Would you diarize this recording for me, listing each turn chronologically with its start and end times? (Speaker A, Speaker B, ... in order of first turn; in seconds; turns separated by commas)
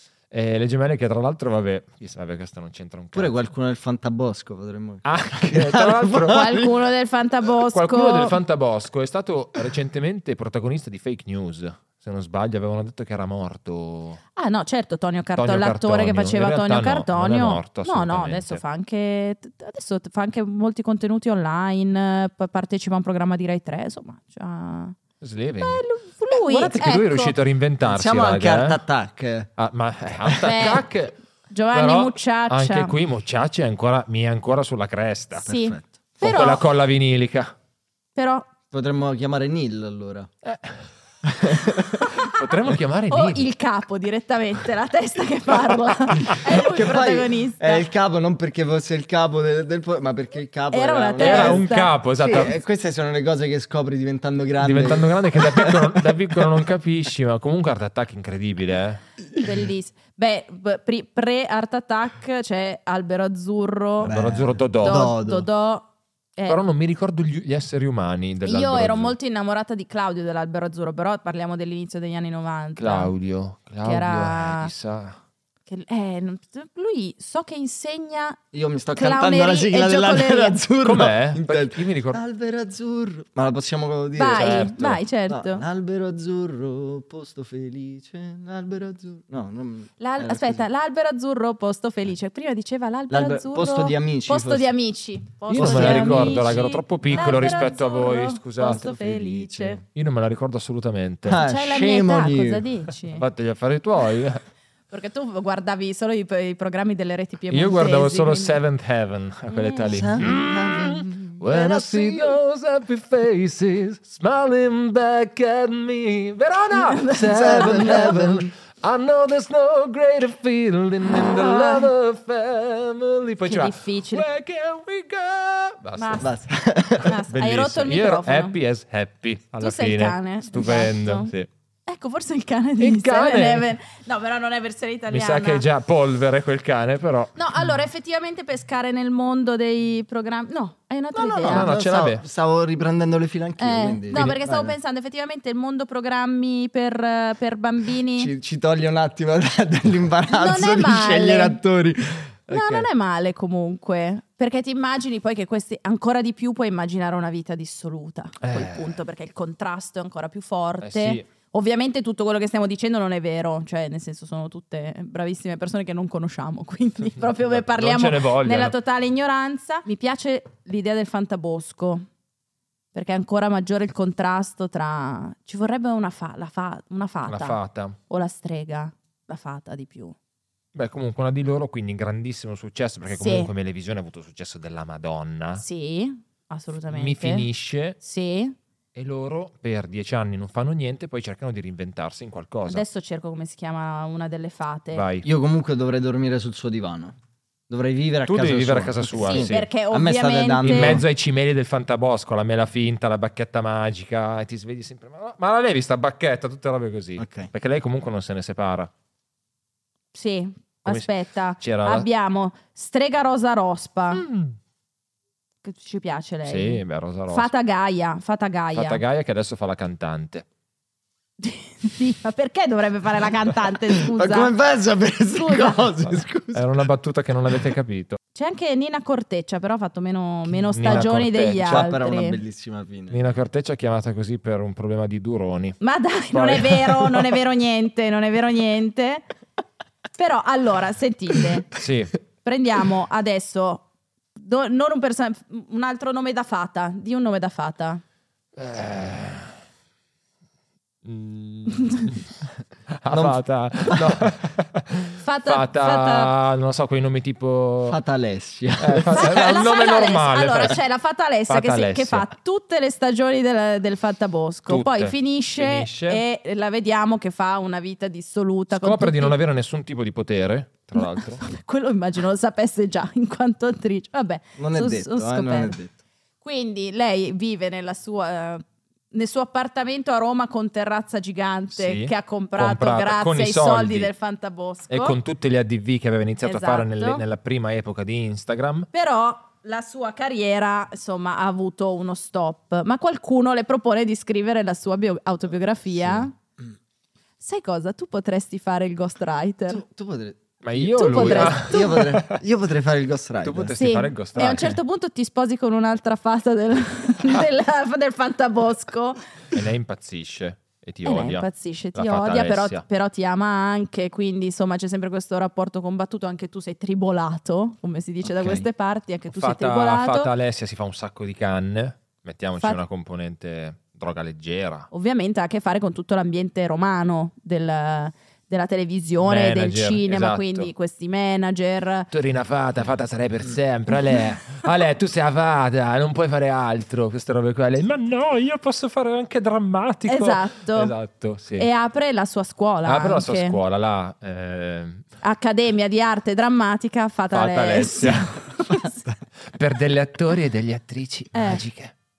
Speaker A: 0.3-3.3, Speaker B: 3.1-6.7, Speaker A: 5.0-6.6, Speaker C: 6.2-8.4, Speaker A: 7.7-14.2, Speaker C: 14.3-24.9, Speaker A: 15.4-18.6, Speaker A: 25.2-28.8, Speaker C: 25.6-27.3, Speaker B: 27.8-29.5, Speaker A: 29.6-31.1, Speaker C: 30.4-30.9, Speaker C: 31.5-32.9, Speaker A: 31.7-35.5, Speaker C: 35.3-36.6, Speaker B: 35.4-36.0, Speaker A: 36.2-37.5, Speaker C: 38.1-38.5, Speaker B: 38.7-40.3, Speaker A: 40.4-40.8, Speaker B: 41.2-42.1, Speaker A: 42.2-43.4, Speaker C: 43.1-47.9, Speaker B: 46.5-51.6, Speaker C: 50.7-51.9, Speaker A: 51.2-52.6, Speaker B: 52.2-56.6, Speaker A: 54.6-59.0, Speaker C: 59.4-64.1, Speaker B: 64.0-65.5, Speaker A: 64.0-65.1, Speaker C: 64.8-66.6, Speaker A: 66.5-69.1, Speaker C: 68.4-73.1, Speaker A: 72.8-75.2, Speaker C: 73.8-74.7, Speaker C: 75.7-78.4, Speaker B: 78.5-90.6, Speaker C: 78.9-80.6, Speaker A: 80.8-82.2, Speaker C: 84.2-85.6, Speaker A: 84.3-84.9, Speaker C: 90.0-99.8, Speaker B: 93.1-94.7, Speaker A: 95.5-98.9, Speaker B: 95.5-96.6, Speaker B: 97.1-97.7, Speaker B: 98.6-99.8, Speaker A: 99.9-101.4, Speaker B: 101.2-102.7, Speaker C: 101.3-103.2, Speaker A: 103.2-104.4, Speaker C: 104.9-108.6, Speaker A: 107.5-126.3, Speaker C: 109.5-109.9, Speaker B: 109.9-112.4, Speaker C: 116.7-118.2, Speaker B: 117.3-118.5, Speaker C: 121.0-121.9, Speaker C: 123.5-124.2, Speaker C: 126.0-126.3, Speaker B: 126.2-127.1, Speaker C: 127.0-128.6, Speaker A: 127.3-131.5, Speaker C: 129.6-131.3, Speaker C: 131.9-135.6, Speaker A: 132.8-133.7, Speaker A: 135.1-137.4, Speaker C: 137.3-141.7, Speaker B: 141.1-144.7, Speaker A: 141.5-142.2, Speaker C: 143.6-148.3, Speaker A: 144.1-144.4, Speaker B: 148.2-152.9, Speaker C: 150.3-151.6, Speaker C: 152.5-172.1, Speaker A: 158.4-159.0, Speaker A: 160.8-161.2, Speaker A: 167.5-168.7, Speaker C: 172.9-180.2, Speaker A: 177.3-178.0, Speaker A: 180.7-185.6, Speaker C: 183.1-183.5, Speaker C: 185.6-187.5, Speaker A: 186.9-188.0, Speaker C: 188.0-188.6, Speaker A: 188.9-192.8, Speaker C: 192.7-195.0, Speaker A: 194.9-195.3, Speaker B: 195.2-197.1, Speaker B: 197.7-201.0, Speaker A: 198.2-199.7, Speaker C: 199.2-201.0, Speaker A: 200.6-208.9, Speaker B: 207.2-207.5, Speaker C: 210.1-214.2, Speaker A: 210.8-212.1, Speaker A: 214.1-214.6, Speaker C: 215.6-219.0, Speaker A: 216.4-217.5, Speaker A: 218.7-220.4, Speaker C: 221.4-224.5, Speaker B: 224.0-226.7, Speaker C: 225.3-225.8, Speaker A: 226.5-228.2, Speaker C: 228.3-232.4, Speaker A: 230.6-231.9, Speaker B: 231.6-233.2, Speaker A: 233.1-235.8, Speaker C: 235.8-239.2, Speaker A: 236.3-237.2, Speaker C: 240.2-241.7, Speaker A: 241.7-242.2, Speaker C: 242.4-243.8, Speaker C: 244.3-248.0, Speaker A: 248.6-249.6, Speaker A: 251.0-252.3, Speaker C: 251.8-252.0, Speaker A: 252.9-258.0, Speaker B: 253.1-254.2, Speaker C: 255.2-256.3, Speaker B: 257.9-259.4, Speaker A: 258.8-260.8, Speaker C: 259.1-269.4, Speaker A: 261.5-262.3, Speaker A: 264.7-266.2, Speaker A: 268.7-271.4, Speaker C: 270.9-275.8, Speaker B: 274.6-276.0, Speaker C: 276.4-285.1, Speaker A: 281.7-284.1, Speaker A: 284.9-288.9, Speaker C: 286.4-287.2, Speaker C: 288.9-296.3, Speaker C: 297.4-299.8, Speaker B: 299.7-303.8, Speaker A: 300.6-302.4, Speaker C: 300.8-302.0, Speaker A: 303.4-304.8, Speaker C: 303.8-309.2, Speaker A: 309.5-312.8, Speaker C: 311.0-320.3, Speaker B: 318.4-318.6, Speaker A: 319.3-324.9, Speaker C: 324.9-332.1, Speaker A: 329.2-330.7, Speaker A: 332.1-341.7, Speaker C: 340.1-340.9, Speaker C: 341.5-343.6, Speaker A: 342.9-345.1, Speaker C: 345.2-349.0, Speaker A: 347.3-348.4, Speaker A: 349.5-351.9, Speaker C: 351.3-351.6